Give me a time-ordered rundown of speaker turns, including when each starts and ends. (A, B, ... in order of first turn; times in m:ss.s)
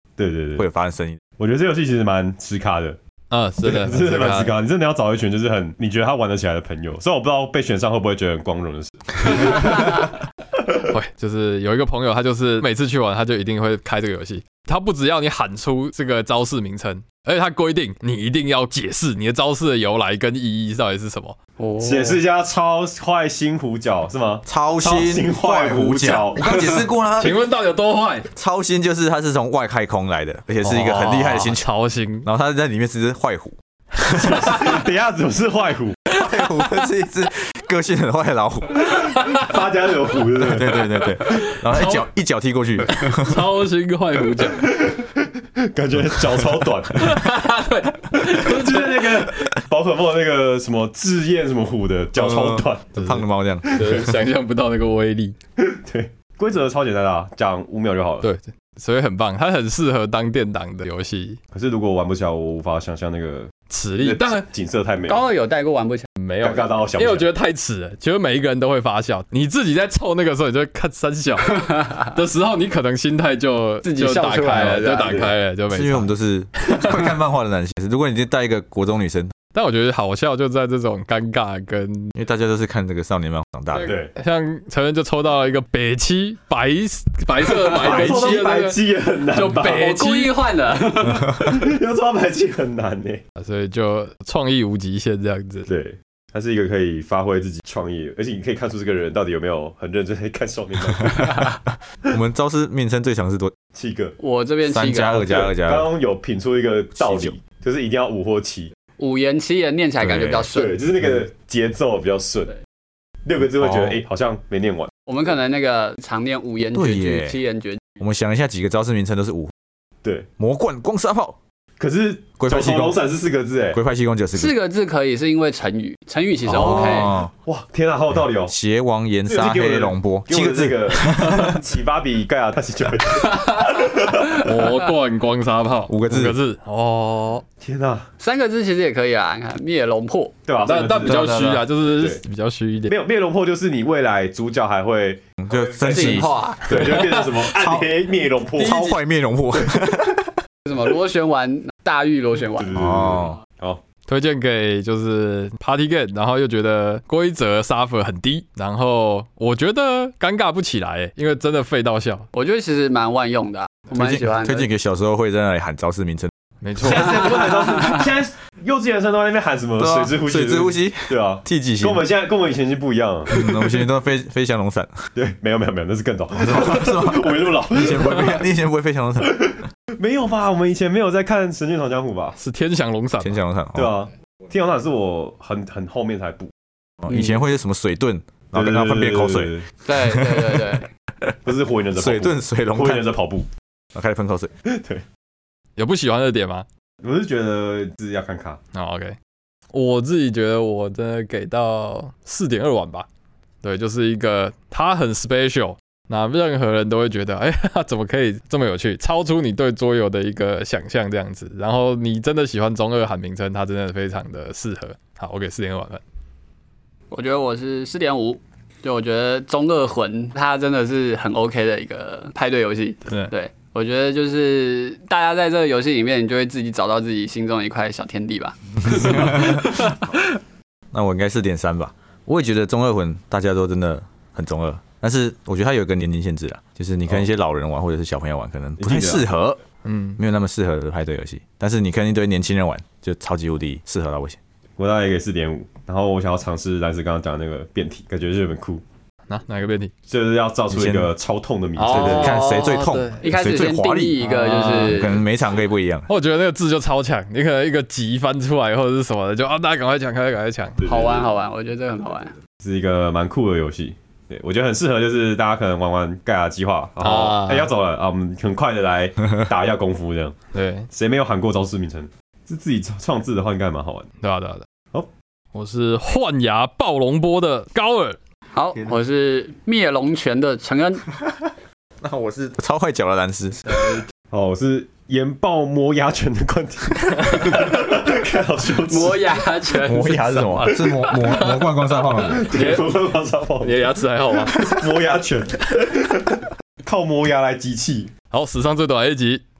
0:00.2-0:00.6 A
0:00.6-0:01.2 B
0:01.4-0:03.0 A
0:03.3-0:04.5 C
0:03.6-0:09.9 A
0:10.9-0:21.4 C
0:21.6-0:22.2 D
0:21.8-0:26.6 A
0:24.4-0:27.4 B
0:27.2-0:28.3 C
0:28.3-0:31.6 B
0:30.6-0:32.3 C
0:32.2-0:33.5 B
0:34.1-0:36.0 A
0:36.1-0:39.0 B
0:39.3-0:40.8 A
0:40.4-0:43.4 B
0:41.3-0:42.0 C
0:42.9-0:44.7 C
0:44.4-0:47.2 A
0:46.9-0:49.3 C
0:48.1-0:52.9 A
0:52.1-0:54.1 B
0:53.0-0:55.3 C
0:55.6-0:58.3 A
0:58.2-1:01.4 C
1:01.5-1:03.5 A
1:03.7-1:04.4 C
1:04.0-1:05.2 A
1:05.1-1:06.1 D
1:06.2-1:16.1 C
1:06.4-1:07.3 A
1:13.8-1:15.3 D
1:15.7-1:19.3 B
1:19.5-1:22.1 C
1:22.2-1:23.9 B
1:23.8-1:24.1 A
1:24.1-1:28.8 C
1:27.4-1:28.4 D
1:27.6-1:29.8 A
1:29.3-1:31.3 D
1:29.6-1:30.4 C
1:31.1-1:33.2 A
1:33.4-1:35.7 C
1:35.7-1:41.3 A
1:41.0-1:41.5 B
1:41.2-1:41.6 D
1:42.1-1:43.5 B
1:43.7-1:44.2 A
1:44.2-1:45.2 D
1:44.7-1:45.9 B
1:45.2-1:48.7 A
1:47.0-1:47.3 B
1:49.0-1:50.8 D
1:50.0-1:50.5 B
1:50.5-1:52.5 A
1:53.2-1:54.9 A
1:53.6-1:54.0 B
1:55.1-1:57.8 D
1:56.7-1:57.4 B
1:58.0-1:59.5 B
2:00.0-2:00.3 A
2:00.4-2:01.4 B
2:01.8-2:03.8 A
2:02.4-2:03.0 B
2:03.7-2:04.6 B
2:04.3-2:07.1 D
2:06.4-2:07.3 B
2:06.7-2:08.5 A
2:08.4-2:11.6 B
2:09.3-2:14.4 A
2:14.3-2:17.4 C
2:15.9-2:16.4 B
2:17.6-2:18.1 A
2:18.2-2:20.3 D
2:20.4-2:22.2 A
2:20.6-2:22.9 C
2:22.9-2:28.8 A
2:25.4-2:27.9 B
2:25.8-2:27.1 D
2:28.6-2:30.4 B
2:28.6-2:28.9 C
2:30.6-2:32.7 D
2:32.6-2:33.8 A
2:32.7-2:33.4 B
2:34.1-2:42.3 C
2:42.3-2:44.7 D
2:43.9-2:46.3 B
2:46.6-2:47.2 C
2:46.8-2:53.4 A
2:49.8-2:52.0 B
2:53.3-2:55.1 B
2:55.2-2:58.5 A
2:56.3-2:59.5 B
2:59.2-3:02.4 A
3:02.4-3:03.4 C
3:03.2-3:03.9 B
3:03.8-3:06.5 A
3:07.0-3:11.4 B
3:08.5-3:09.7 A
3:09.8-3:10.9 D
3:11.4-3:13.5 A
3:11.9-3:13.1 B
3:13.9-3:14.5 B
3:14.6-3:15.0 A
3:15.8-3:16.6 C
3:17.0-3:18.6 A
3:18.7-3:19.2 C
3:19.7-3:23.1 C
3:23.6-3:36.0 C
3:37.1-3:49.7 D
3:48.8-3:49.8 B
3:50.9-3:59.6 B
3:58.8-3:59.2 A
3:59.8-4:00.2 C
4:00.2-4:04.4 B
4:04.8-4:08.8 A
4:09.3-4:09.9 C
4:10.1-4:12.4 A
4:10.7-4:11.1 B
4:11.8-4:13.2 C
4:11.8-4:15.2 D
4:11.9-4:16.1 B
4:14.2-4:15.0 C
4:16.1-4:20.8 C
4:20.8-4:21.3 A
4:20.8-4:22.4 D
4:22.6-4:30.4 A
4:27.0-4:27.7 C
4:30.5-4:30.9 C
4:30.9-4:34.1 A
4:34.2-4:34.6 C
4:35.5-4:38.2 C
4:38.5-4:41.0 D
4:41.2-4:41.5 B
4:42.0-4:44.0 B
4:44.3-4:49.4 A
4:48.9-4:50.8 D
4:49.7-4:52.5 B
4:50.8-4:51.7 C
4:52.2-4:53.8 A
4:52.3-4:52.9 C
4:53.6-4:54.5 C
4:54.4-4:58.1 A
4:58.3-4:59.4 C